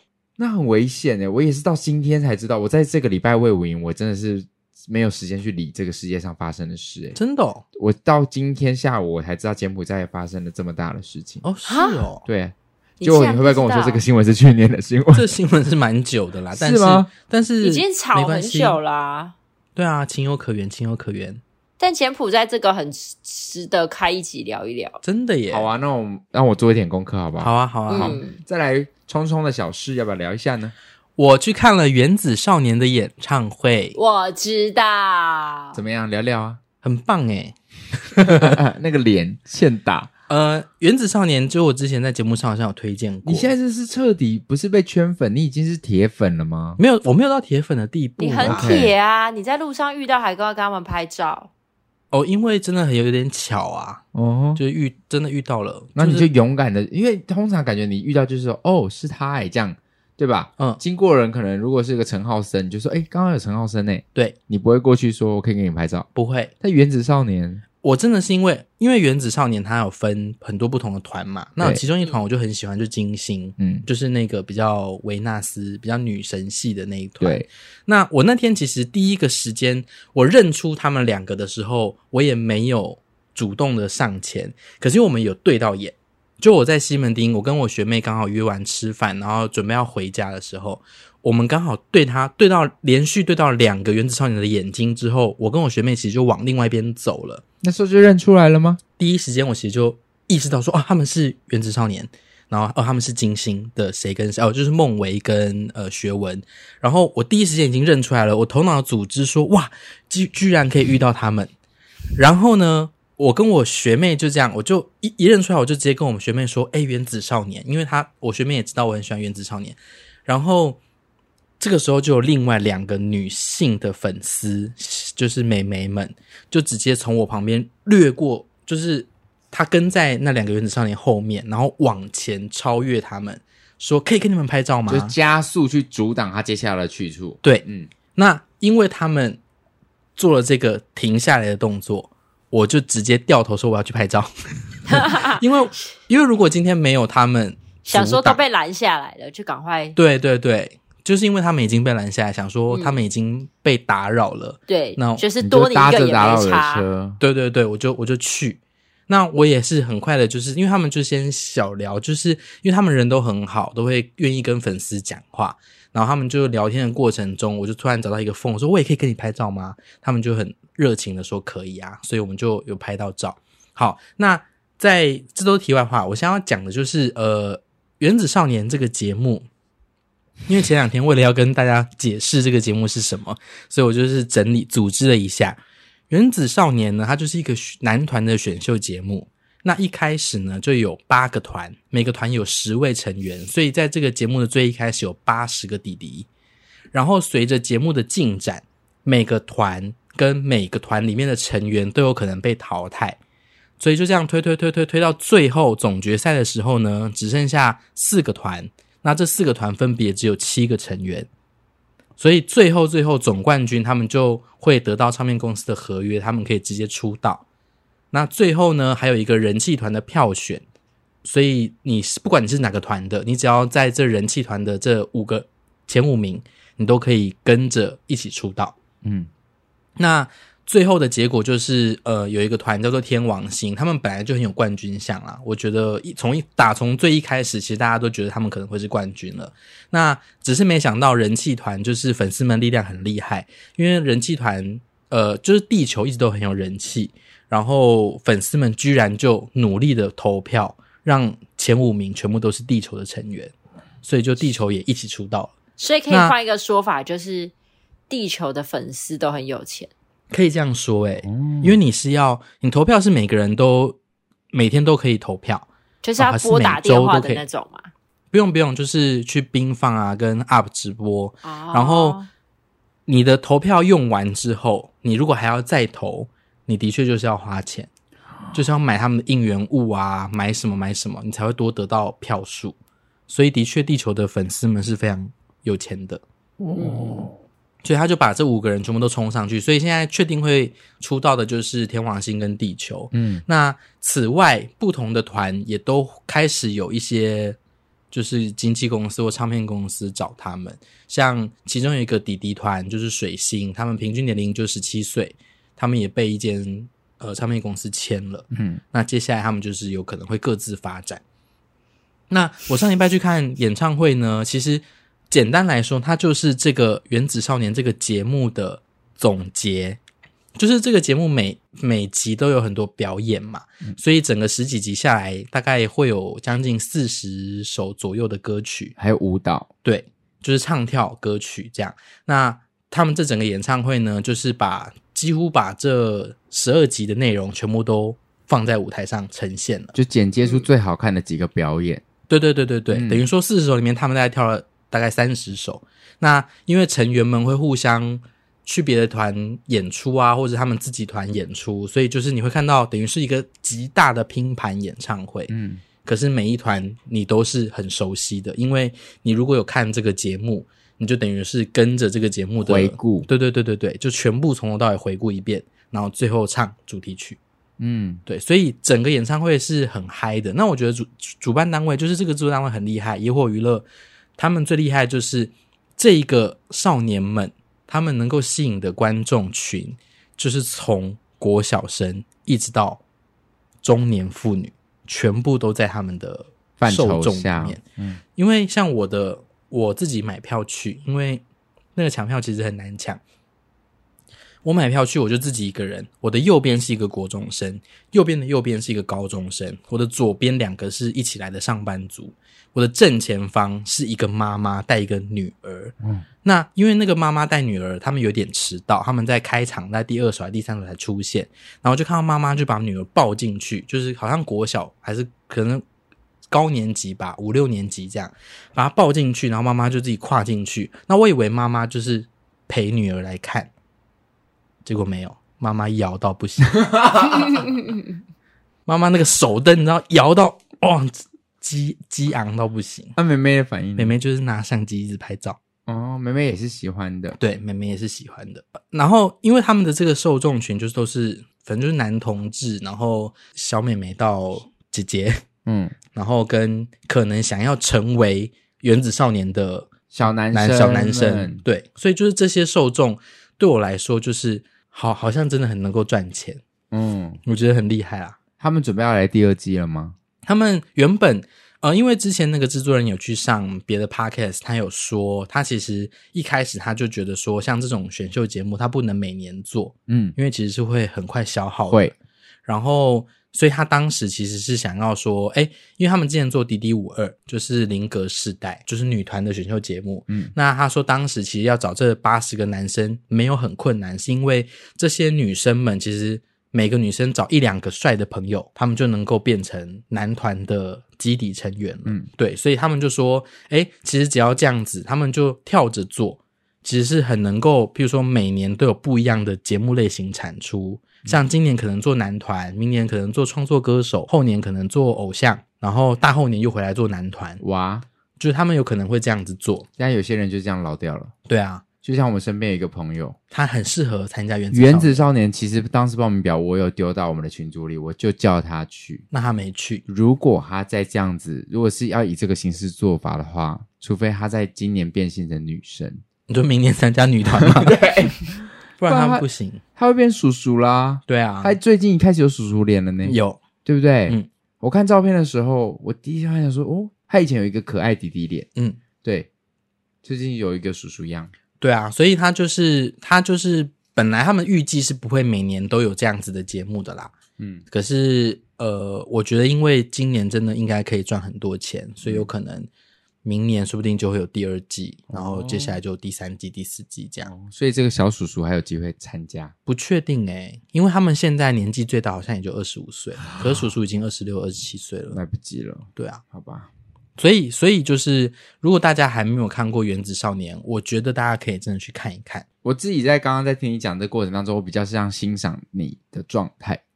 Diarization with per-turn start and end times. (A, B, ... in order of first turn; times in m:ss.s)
0:00.4-0:07.2 A
0:07.2-0:07.6 B
0:07.8-0:11.4 A
0:11.4-0:12.3 B
0:11.7-0:12.0 C
0:12.3-0:15.3 A
0:13.0-0:14.0 C
0:15.1-0:18.8 B
0:16.6-0:17.1 A
0:17.6-0:19.4 C
0:19.8-0:21.4 B
0:21.8-0:25.0 C
0:25.0-0:25.7 B
0:25.5-0:30.7 A
0:27.4-0:28.2 B
0:27.9-0:28.4 C
0:31.2-0:34.0 B
0:34.0-0:35.8 C
0:35.7-0:36.6 A
0:36.8-0:37.6 B
0:38.1-0:38.6 B
0:38.2-0:40.1 A
0:40.3-0:43.5 B
0:43.2-0:46.8 A
0:46.8-0:48.8 B
0:48.2-0:51.5 C
0:48.4-0:48.9 A
0:52.1-0:54.0 B
0:54.1-0:54.6 A
0:54.6-0:56.3 B
0:56.0-1:06.1 A
1:06.2-1:06.5 B
1:06.6-1:07.6 A
1:07.8-1:37.4 B
1:13.6-1:13.9 A
1:17.2-1:17.5 A
1:37.6-1:38.8 A
1:39.0-1:51.5 B
1:52.2-2:00.8 B
2:01.6-2:15.1 B
2:14.9-2:17.9 A
2:17.4-2:19.4 B
2:20.2-2:28.4 B
2:24.9-2:25.4 C
2:27.9-2:30.0 C
2:30.0-2:35.2 B
2:32.7-2:33.0 C
2:34.7-2:36.9 C
2:35.4-2:37.2 A
2:37.2-2:59.5 B
3:00.5-3:05.6 B
3:06.1-3:16.3 B
3:16.9-3:23.2 B
3:23.8-3:31.3 B
3:32.2-3:37.4 B
3:38.1-3:40.6 B
3:41.2-3:48.8 B
3:49.0-3:49.3 A
3:50.0-4:15.6 B
4:15.8-4:17.5 C
4:16.1-4:16.4 B
4:18.1-4:19.9 C
4:20.3-4:24.0 B
4:21.2-4:21.8 A
4:24.5-4:25.7 B
4:26.0-4:27.9 C
4:26.2-4:27.4 B
4:28.3-4:32.2 B
4:31.4-4:32.3 C
4:33.1-4:37.9 B
4:38.5-4:42.8 B
4:43.3-4:46.2 B
4:46.6-4:47.3 A
4:47.8-4:57.6 B
4:53.1-4:53.4 A
4:58.1-5:11.2 B
5:08.5-5:08.8 A
5:12.3-5:20.0 B
5:20.6-5:28.9 B
5:29.0-5:29.7 A
5:29.8-5:40.0 B
5:40.0-5:42.0 A
5:42.3-5:55.5 B
5:42.9-5:43.2 A
5:55.5-5:55.8 A
5:56.0-6:07.4 B
6:02.6-6:03.3 A
6:07.8-6:08.2 A
6:08.3-6:23.0 B
6:23.8-6:27.8 B
6:26.8-6:28.2 A
6:28.4-6:31.4 B
6:32.0-6:33.2 B
6:34.6-6:55.8 B
6:56.5-7:03.7 B
7:04.8-7:06.9 B
7:06.8-7:07.6 A
7:08.9-7:13.2 B
7:13.2-7:14.1 A
7:14.0-7:15.6 B
7:15.9-7:17.4 A
7:17.4-7:25.4 B
7:25.6-7:26.0 A
7:26.1-7:29.9 B
7:30.1-7:31.6 A
7:30.5-7:36.6 B
7:36.9-7:37.4 A
7:37.5-7:38.4 B
7:38.6-7:40.2 A
7:40.5-7:52.1 B
7:50.1-7:50.4 A
7:51.9-7:52.1 A
7:52.7-8:27.6 B
8:00.3-8:00.5 A
8:27.6-8:28.1 A
8:28.4-8:29.9 B
8:30.0-8:31.3 A
8:31.5-8:31.8 B
8:32.0-8:33.4 A
8:33.5-8:35.2 B
8:34.7-8:39.3 A
8:39.3-8:40.0 B
8:40.1-8:46.2 A
8:46.5-8:48.0 B
8:47.6-8:58.7 A
8:49.0-8:49.8 B
8:51.3-8:51.8 B
8:53.2-8:53.6 B
8:59.2-8:59.5 A
9:00.2-9:01.5 A
9:01.8-9:07.3 B
9:07.6-9:07.8 A
9:07.9-9:12.9 B
9:12.2-9:12.5 A
9:13.4-9:17.5 B
9:15.3-9:16.0 A
9:17.5-9:19.7 A
9:19.9-9:25.4 B
9:25.3-9:26.9 A
9:26.2-9:26.4 B
9:27.4-9:32.6 B
9:32.8-9:37.0 A